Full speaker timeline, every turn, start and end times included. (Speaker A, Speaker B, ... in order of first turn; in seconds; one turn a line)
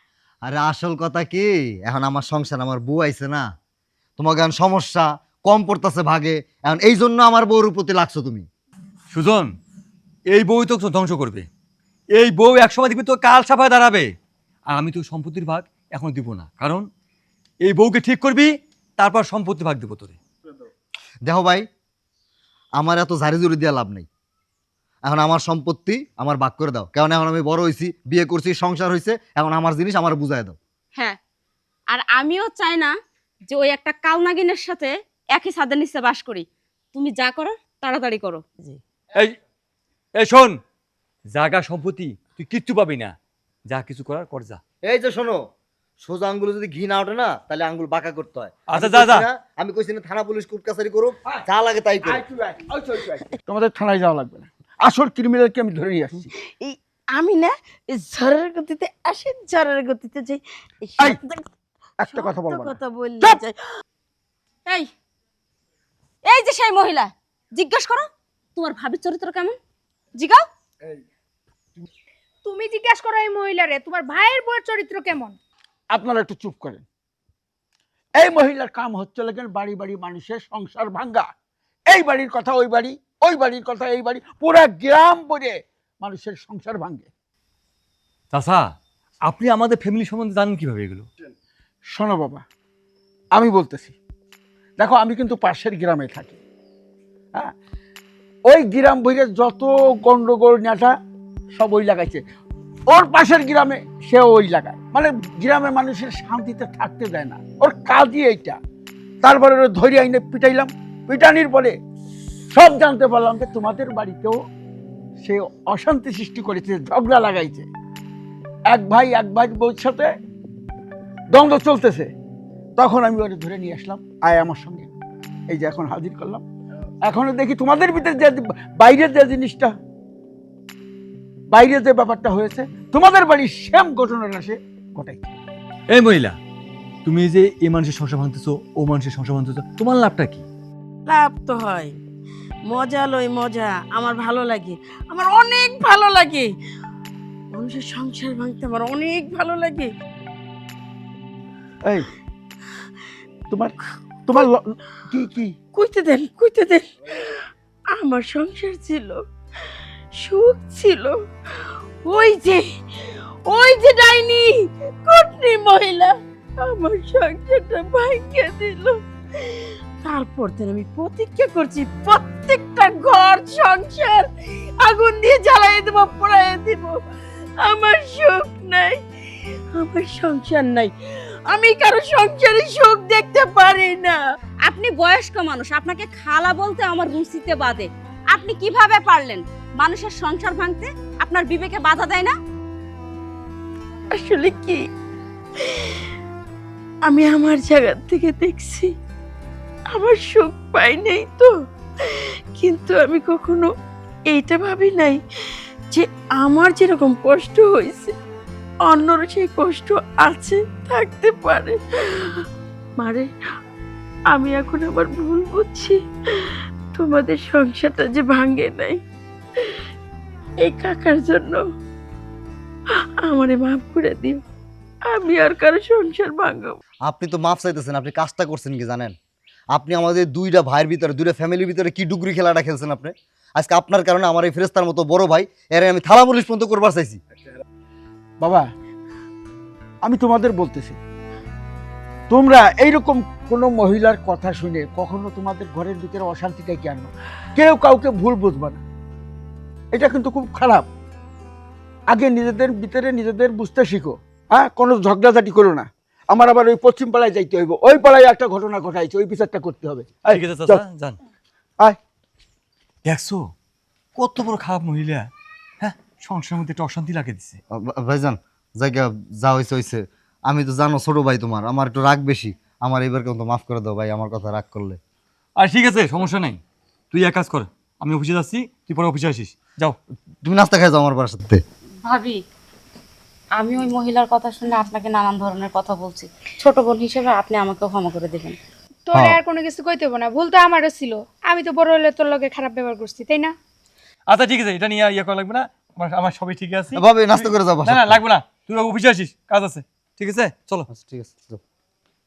Speaker A: 0.4-3.5
Speaker A: 4.2-8.4
Speaker B: 9.1-9.5
Speaker B: 10.3-11.4
Speaker B: 12.1-14.1
Speaker B: 14.7-16.9
Speaker B: 17.6-20.2
Speaker A: 21.2-21.6
Speaker A: 22.8-24.1
Speaker A: 25.1-30.6
Speaker C: 31.9-32.9
Speaker C: 33.5-38.4
Speaker B: 40.1-40.5
Speaker B: 41.3-43.1
Speaker B: 43.6-44.6
Speaker A: 44.8-45.4
Speaker A: 46.0-52.2
Speaker B: 48.7-49.2
Speaker D: 52.0-56.3
Speaker E: 56.1-61.4
Speaker D: 62.0-63.4
Speaker E: 62.0-63.5
Speaker C: 66.3-68.0
Speaker C: 68.6-69.5
Speaker C: 70.1-70.4
Speaker F: 72.4-75.3
Speaker D: 75.9-76.8
Speaker D: 78.2-81.3
Speaker D: 81.9-87.1
Speaker B: 88.3-88.7
Speaker B: 89.2-91.0
Speaker D: 91.9-92.4
Speaker D: 93.3-93.9
Speaker D: 94.8-96.4
Speaker D: 98.5-100.9
Speaker D: 101.5-102.2
Speaker D: 102.9-108.6
Speaker D: 109.2-111.8
Speaker D: 112.5-114.4
Speaker D: 115.2-117.7
Speaker D: 118.7-120.1
Speaker D: 121.3-122.1
Speaker D: 122.8-124.9
Speaker D: 125.5-126.4
Speaker D: 127.0-129.7
Speaker D: 131.5-135.3
Speaker B: 135.9-136.4
Speaker B: 137.0-140.4
Speaker E: 141.1-141.9
Speaker E: 142.6-146.5
Speaker E: 147.5-149.9
Speaker D: 154.2-155.5
Speaker E: 155.7-157.3
Speaker E: 157.9-159.2
Speaker E: 160.2-161.1
Speaker E: 162.0-162.7
Speaker E: 163.4-177.0
Speaker E: 177.6-179.0
Speaker E: 179.7-180.9
Speaker E: 181.5-184.2
Speaker C: 184.7-192.3
Speaker E: 194.1-194.8
Speaker E: 195.6-196.0
Speaker E: 197.0-198.9
Speaker E: 199.9-201.5
Speaker E: 202.1-203.7
Speaker E: 204.3-205.2
Speaker E: 205.9-208.1
Speaker E: 208.8-212.4
Speaker E: 213.0-213.3
Speaker E: 214.3-219.0
Speaker E: 220.6-221.6
Speaker E: 223.2-224.4
Speaker E: 225.1-226.8
Speaker A: 227.0-229.1
Speaker A: 229.7-237.2
Speaker D: 238.4-238.7
Speaker D: 240.0-241.0
Speaker D: 242.3-248.8
Speaker D: 249.9-250.9
Speaker D: 252.1-260.8
Speaker B: 260.3-261.2
Speaker B: 263.0-263.5
Speaker B: 264.1-265.3
Speaker B: 265.8-267.6
Speaker A: 267.7-275.0
Speaker B: 275.6-276.6
Speaker B: 277.1-280.0
Speaker A: 280.4-281.6
Speaker C: 282.1-282.4
Speaker C: 283.5-288.6
Speaker F: 289.1-293.5
Speaker A: 289.1-289.4
Speaker B: 294.3-300.9
Speaker A: 296.9-298.2
Speaker A: 300.9-301.6